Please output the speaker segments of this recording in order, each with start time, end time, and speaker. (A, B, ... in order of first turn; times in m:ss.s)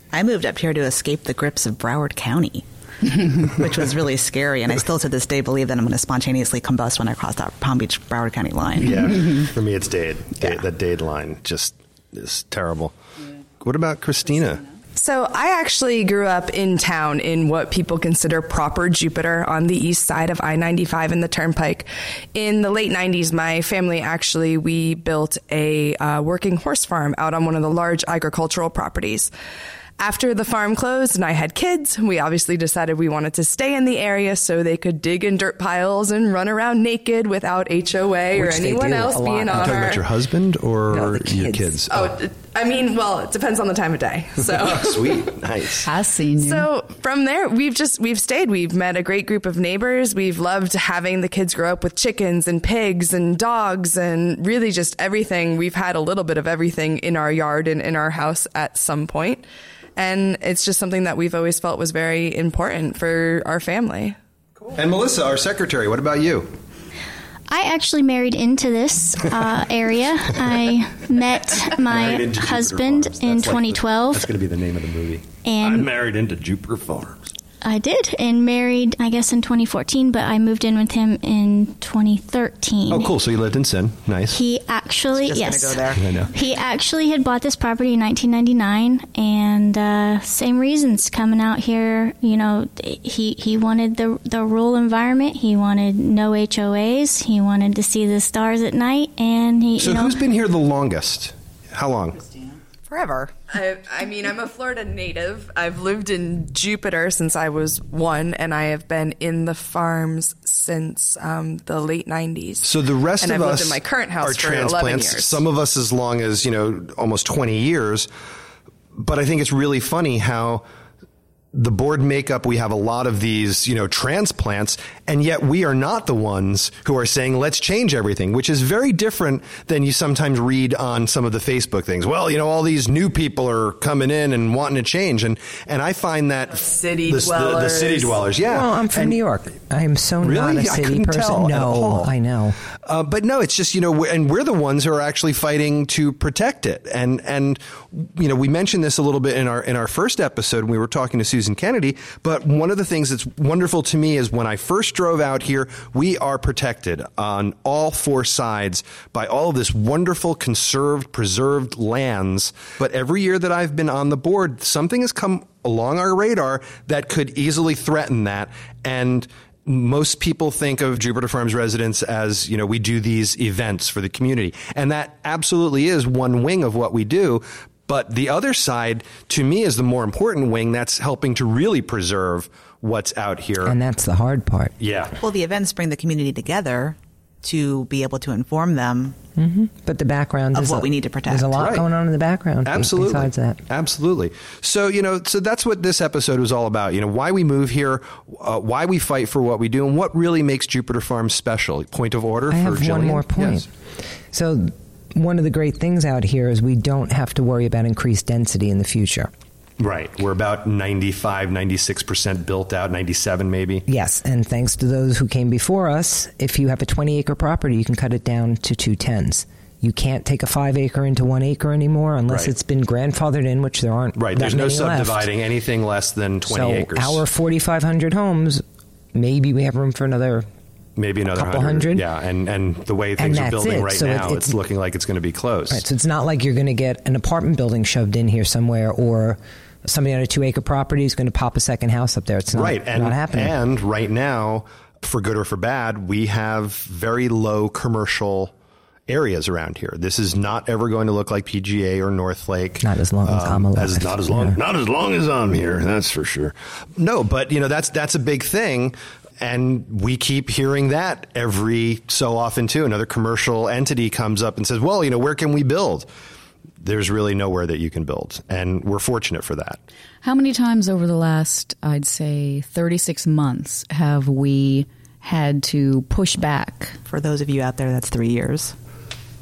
0:00.1-0:09.1 A
0:08.8-0:13.0 B
0:13.6-0:14.6 B
0:15.0-0:29.3 C
0:30.0-0:40.1 C
0:38.3-0:39.9 D
0:39.5-0:42.1 B
0:40.9-0:41.8 D
0:41.9-0:45.3 C
0:44.5-0:45.9 B
0:45.8-0:46.7 E
0:46.4-0:59.4 C
1:00.0-1:04.2 C
1:04.7-1:06.5 B
1:07.5-1:14.3 F
1:11.6-1:17.3 B
1:15.4-1:15.9 F
1:17.6-1:23.1 F
1:22.9-1:24.4 B
1:24.3-1:40.2 F
1:25.2-1:26.1 A
1:26.0-1:26.3 B
1:39.8-1:42.3 B
1:42.9-1:43.3 A
1:43.5-1:55.4 C
1:52.6-1:58.1 B
1:59.0-2:00.6 B
2:01.5-2:19.2 B
2:16.6-2:18.2 C
2:18.5-2:22.6 D
2:20.2-2:22.1 B
2:22.8-3:03.8 B
3:03.6-3:04.8 D
3:04.8-3:05.2 B
3:05.2-3:09.2 A
3:09.4-3:13.6 D
3:10.5-3:11.8 A
3:11.6-3:11.9 B
3:12.6-3:23.6 B
3:22.5-3:23.7 D
3:24.3-3:29.3 D
3:29.8-3:33.8 B
3:33.9-3:45.3 D
3:44.2-3:47.2 B
3:46.5-3:48.6 D
3:49.1-3:50.5 D
3:51.0-3:55.8 B
3:51.3-3:52.0 D
3:53.2-3:54.6 D
3:55.7-4:03.6 D
4:02.5-4:08.5 B
4:09.1-4:26.1 B
4:12.8-4:14.6 D
4:26.8-4:29.8 B
4:30.2-4:37.0 E
4:37.1-4:38.7 A